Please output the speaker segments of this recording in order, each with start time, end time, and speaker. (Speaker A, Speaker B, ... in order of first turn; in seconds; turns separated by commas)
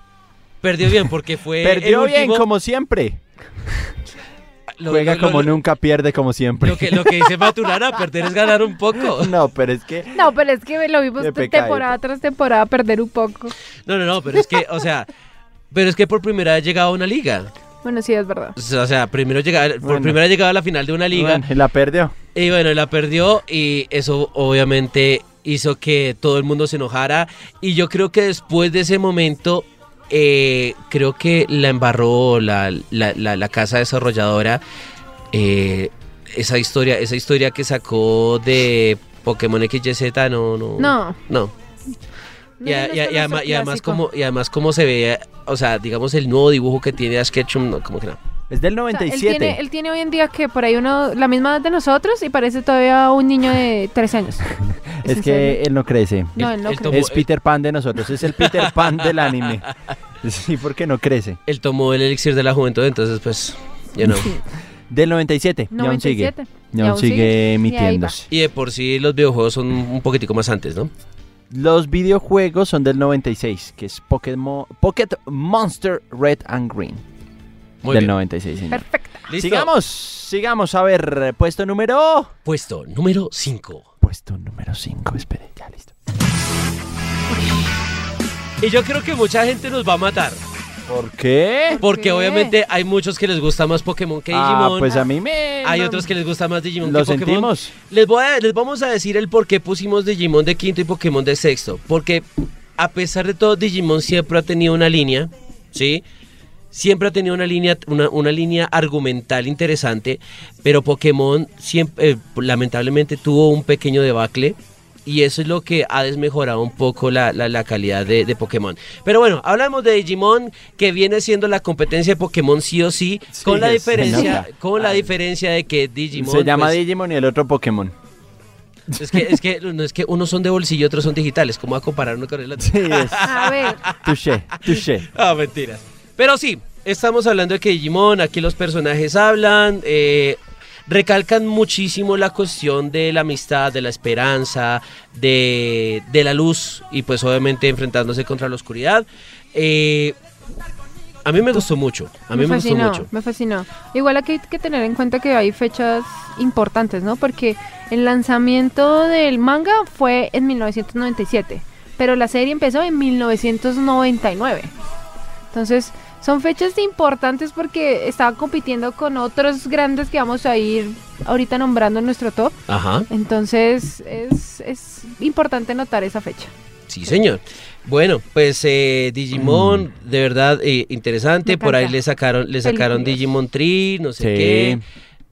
Speaker A: 0.6-2.5, Speaker B: 1.6-3.9, Speaker A: 4.8-5.6, Speaker B: 4.9-7.3, Speaker A: 6.6-9.3, Speaker B: 9.0-10.3, Speaker C: 10.1-13.5, Speaker B: 11.2-11.9, Speaker A: 13.8-15.1, Speaker A: 15.7-17.5, Speaker C: 17.8-18.5, Speaker A: 18.6-21.4, Speaker B: 19.8-20.2, Speaker B: 21.1-22.1, Speaker A: 22.3-34.6, Speaker A: 35.3-41.5, Speaker C: 40.8-41.2, Speaker C: 42.6-44.0, Speaker A: 42.6-48.2, Speaker B: 48.5-49.6, Speaker C: 48.9-54.5, Speaker B: 54.6-59.7, Speaker C: 55.0-55.6, Speaker C: 56.4-57.0, Speaker A: 56.4-57.3, Speaker A: 58.3-59.7, Speaker B: 60.2-61.4, Speaker A: 61.5-64.3, Speaker C: 64.0-64.4, Speaker B: 64.9-68.3, Speaker C: 65.7-68.2, Speaker A: 68.3-70.9, Speaker B: 71.5-77.0, Speaker A: 77.8-78.1, Speaker B: 77.9-82.3, Speaker C: 78.7-79.3, Speaker A: 79.3-79.7, Speaker A: 82.5-83.8, Speaker B: 84.0-85.9, Speaker A: 88.6-90.4, Speaker B: 90.9-91.8, Speaker C: 91.7-92.5, Speaker A: 91.8-95.0, Speaker B: 94.3-96.1, Speaker A: 95.6-102.2, Speaker B: 96.8-97.7, Speaker A: 102.8-106.0, Speaker A: 106.7-126.8, Speaker B: 123.3-125.1, Speaker C: 124.0-124.3, Speaker B: 126.1-127.9, Speaker B: 128.9-129.4, Speaker A: 129.0-150.1, Speaker B: 132.6-133.3, Speaker C: 133.2-133.8, Speaker B: 133.9-135.1, Speaker A: 151.2-153.1, Speaker C: 152.3-164.7, Speaker C: 165.5-172.6, Speaker A: 172.7-173.1, Speaker C: 173.1-176.5, Speaker A: 176.9-184.8, Speaker B: 179.3-179.8, Speaker C: 181.4-182.0, Speaker C: 182.6-183.2, Speaker B: 184.2-184.8